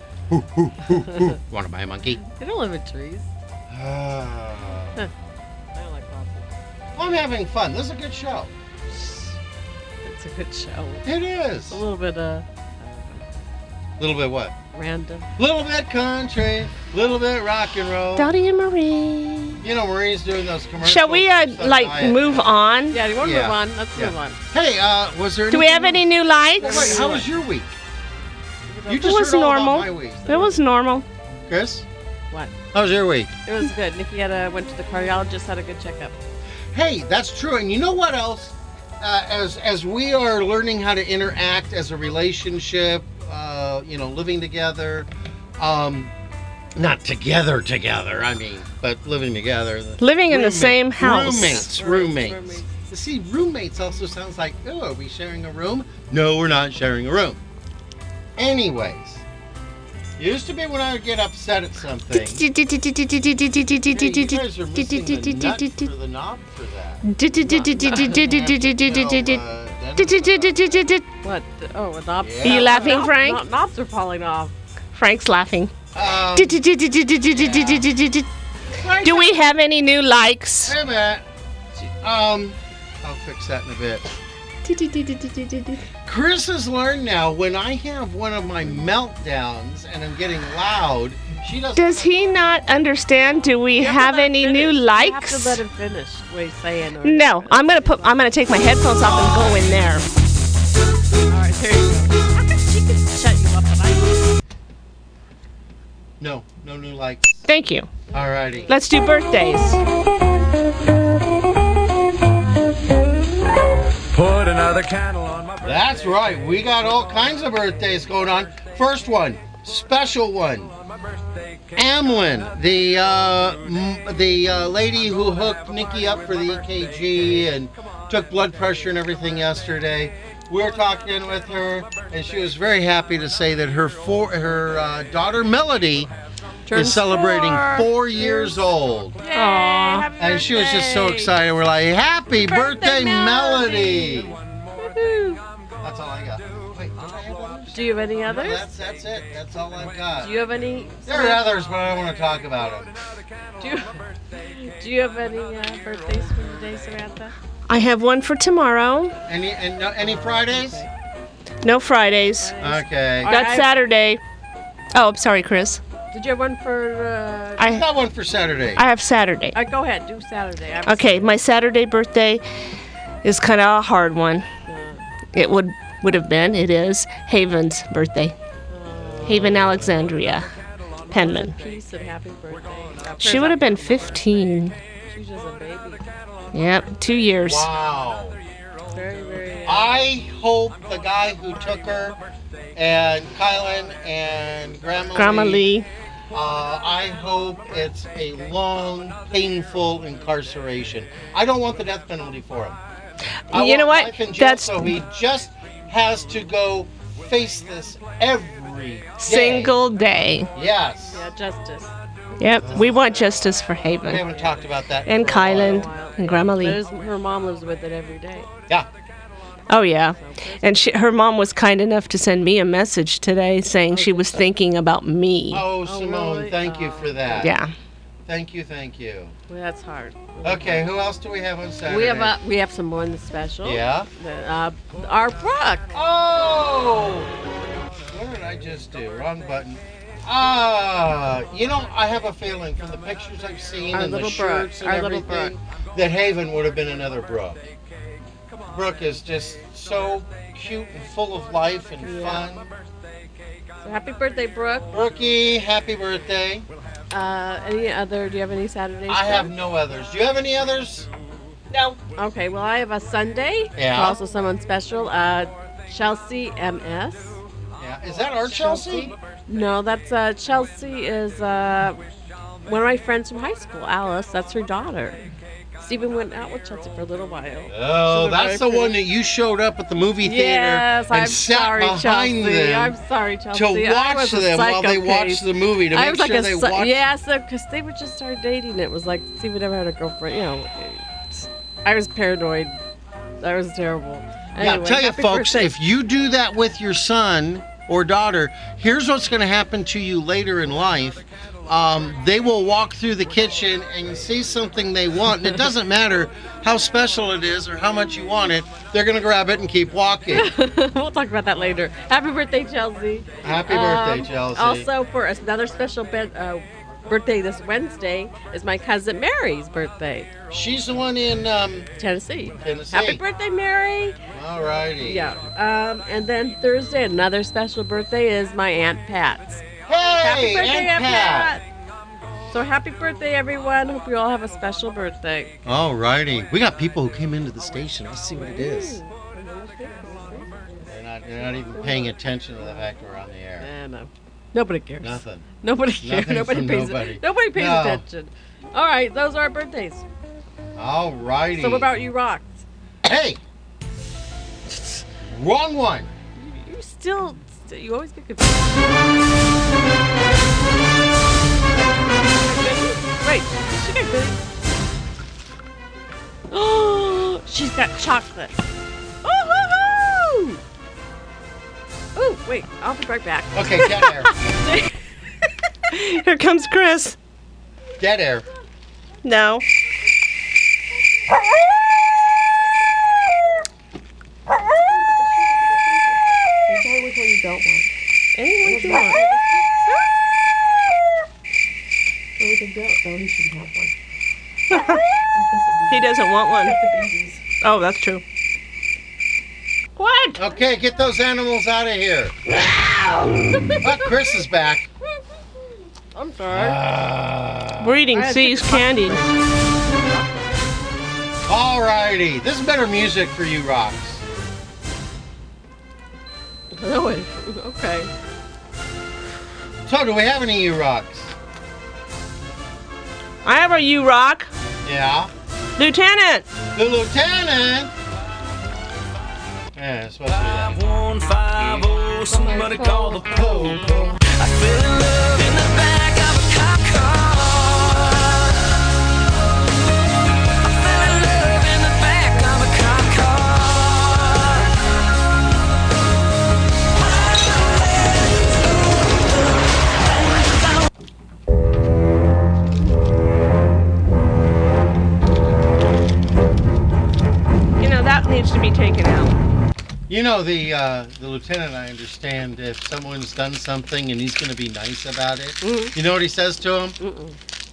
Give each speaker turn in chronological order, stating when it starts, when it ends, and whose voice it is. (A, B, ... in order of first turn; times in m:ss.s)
0:00.3-0:02.2 A
0:02.3-0:03.3 B
0:03.7-0:05.0 A
0:05.7-0:06.5 B
0:07.0-0:08.5 A
0:09.0-0:09.2 B
0:10.0-0:11.1 B
0:11.0-0:11.8 A
0:11.7-0:13.2 B
0:14.0-0:14.5 A
0:14.7-0:15.3 B
0:15.4-0:18.3 A
0:18.2-0:19.6 C
0:19.6-0:22.5 A
0:20.8-0:23.0 C
0:22.9-0:24.4 B
0:23.2-0:26.1 A
0:25.5-0:27.0 C
0:26.6-0:27.8 A
0:26.6-0:27.3 B
0:28.7-0:29.2 B
0:28.9-0:30.4 A
0:28.9-0:31.1 C
0:30.3-0:30.6 B
0:31.5-0:31.9 A
0:32.7-0:33.3 A
0:33.5-0:36.2 B
0:36.7-0:46.1 A
0:46.8-0:57.4 A
0:50.0-0:51.7 C
0:51.4-0:52.8 B
0:58.4-0:59.2 A
1:00.2-1:02.4 A
1:02.1-1:05.9 C
1:03.9-1:10.6 A
1:07.0-1:09.4 C
1:07.6-1:08.2 B
1:10.0-1:11.1 C
1:11.2-1:14.5 B
1:12.2-1:13.0 A
1:12.4-1:13.4 C
1:14.9-1:15.7 C
1:15.9-1:16.6 A
1:16.3-1:18.3 C
1:17.3-1:17.9 A
1:18.7-1:19.5 A
1:19.0-1:20.8 C
1:20.6-1:21.2 A
1:21.9-1:24.0 A
1:24.6-1:25.8 C
1:26.0-1:32.2 A
1:31.8-1:35.6 C
1:33.8-1:38.2 B
1:37.0-1:40.1 C
1:39.0-1:39.7 A
1:41.3-1:44.3 B
1:46.2-1:47.4 A
1:47.5-1:47.9 C
1:48.1-1:48.7 B
1:48.1-1:48.7 A
1:48.7-1:49.8 C
1:54.2-1:55.5 D
1:55.6-2:00.7 A
2:01.8-2:16.1 A
2:16.7-2:18.7 B
2:16.7-2:19.2 A
2:19.2-2:21.3 B
2:19.3-2:20.1 C
2:20.2-2:24.4 A
2:22.4-2:25.4 B
2:25.8-2:30.3 A
2:27.7-2:28.7 B
2:30.2-2:31.5 B
2:31.1-2:32.9 A
2:33.6-2:37.3 B
2:37.7-2:39.1 C
2:39.3-2:40.8 A
2:40.5-2:40.9 B
2:41.6-2:42.6 C
2:42.4-2:43.7 B
2:42.6-2:43.3 A
2:43.2-2:44.2 C
2:44.9-2:45.8 C
2:46.1-2:47.8 B
2:47.6-2:47.8 C
2:47.6-2:48.8 A
2:48.8-2:49.6 C
2:49.5-2:51.4 B
2:50.9-2:52.4 C
2:53.2-2:54.5 C
2:54.7-2:55.0 B
2:55.3-2:58.4 C
2:58.7-2:59.9 B
2:59.2-3:00.5 C
3:01.1-3:01.5 C
3:01.1-3:04.3 B
3:03.2-3:04.8 C
3:05.1-3:06.1 B
3:06.5-3:07.7 C
3:07.4-3:08.4 A
3:08.9-3:10.1 B
3:09.7-3:12.2 A
3:12.8-3:15.7 A
3:15.2-3:15.9 C
3:16.3-3:22.8 A
3:23.5-3:24.9 C
3:23.5-3:29.8 A
3:29.2-3:30.5 C
3:30.5-3:31.2 A
3:31.1-3:32.7 B
3:32.4-3:34.3 C
3:32.6-3:35.9 A
3:35.1-3:36.8 C
3:35.3-3:38.5 B
3:39.7-3:45.6 C
3:40.2-3:41.0 B
3:43.9-3:44.3 B
3:45.5-3:47.6 A
3:45.9-3:47.5 B
3:47.4-3:47.7 C
3:48.3-3:49.4 A
3:49.5-3:50.9 B
3:50.4-3:52.4 A
3:51.9-3:55.9 B
3:53.6-3:54.1 A
3:55.9-3:57.3 A
3:58.1-4:07.6 A
4:03.9-4:05.6 B
4:08.7-4:12.7 A
4:12.0-4:12.5 B
4:13.8-4:14.9 B
4:14.9-4:16.7 A
4:17.1-4:19.5 B
4:19.1-4:21.1 A
4:22.1-4:27.4 B
4:23.8-4:24.2 A
4:27.8-4:29.2 A
4:28.4-4:32.0 B
4:32.6-4:35.2 B
4:35.8-4:39.0 B
4:37.7-4:43.0 A
4:40.2-4:52.8 B
4:43.5-4:47.0 A
4:53.4-4:55.7 B
4:54.6-5:10.5 A
5:10.3-5:20.3 B
5:13.4-5:14.9 A
5:20.5-5:21.9 A
5:22.0-5:24.2 B
5:22.6-5:23.2 A
5:24.3-5:25.4 A
5:25.0-5:29.6 B
5:29.9-5:31.6 A
5:30.2-5:31.6 B
5:32.5-5:35.6 B
5:35.6-5:39.0 A
5:38.4-5:42.8 B
5:40.9-5:43.7 A
5:43.6-5:50.0 B
5:45.0-5:45.5 A
5:46.0-5:48.0 A
5:50.8-5:51.9 A
5:51.6-5:52.6 B
5:53.0-5:53.4 A
5:54.7-5:55.0 B
5:55.2-5:56.1 A
5:56.4-5:58.9 B
6:02.3-6:04.4 B
6:06.5-6:08.6 B
6:09.2-6:10.6 B
6:12.2-6:14.9 B
6:13.5-6:14.3 A
6:15.9-6:17.2 C
6:18.0-6:18.5 A
6:19.2-6:19.6 C
6:24.9-6:27.9 B
6:28.4-6:29.2 C
6:28.6-6:29.6 B
6:32.4-6:33.9 B
6:34.7-6:35.0 C
6:35.4-6:36.1 B
6:35.9-6:36.8 C
6:36.6-6:37.4 B
6:37.6-6:38.2 C
6:40.0-6:40.4 C
6:40.4-6:42.4 A
6:43.5-6:43.8 B
6:43.8-6:44.9 A
6:46.1-6:46.8 B
6:46.5-6:48.0 A
6:47.8-6:49.3 C
6:48.1-6:50.7 B
6:51.5-6:54.2 A
6:56.7-6:58.1 B
6:59.9-7:01.3 A
7:03.4-7:04.5 C
7:04.8-7:05.3 A
7:05.8-7:06.5 C
7:06.8-7:07.9 A
7:09.8-7:10.8 A
7:10.3-7:18.5 D
7:12.3-7:13.7 B
7:13.2-7:14.2 A
7:20.7-7:24.6 D
7:37.8-7:39.4 C
7:40.1-7:47.0 A
7:45.6-7:45.9 B
7:47.0-7:47.4 B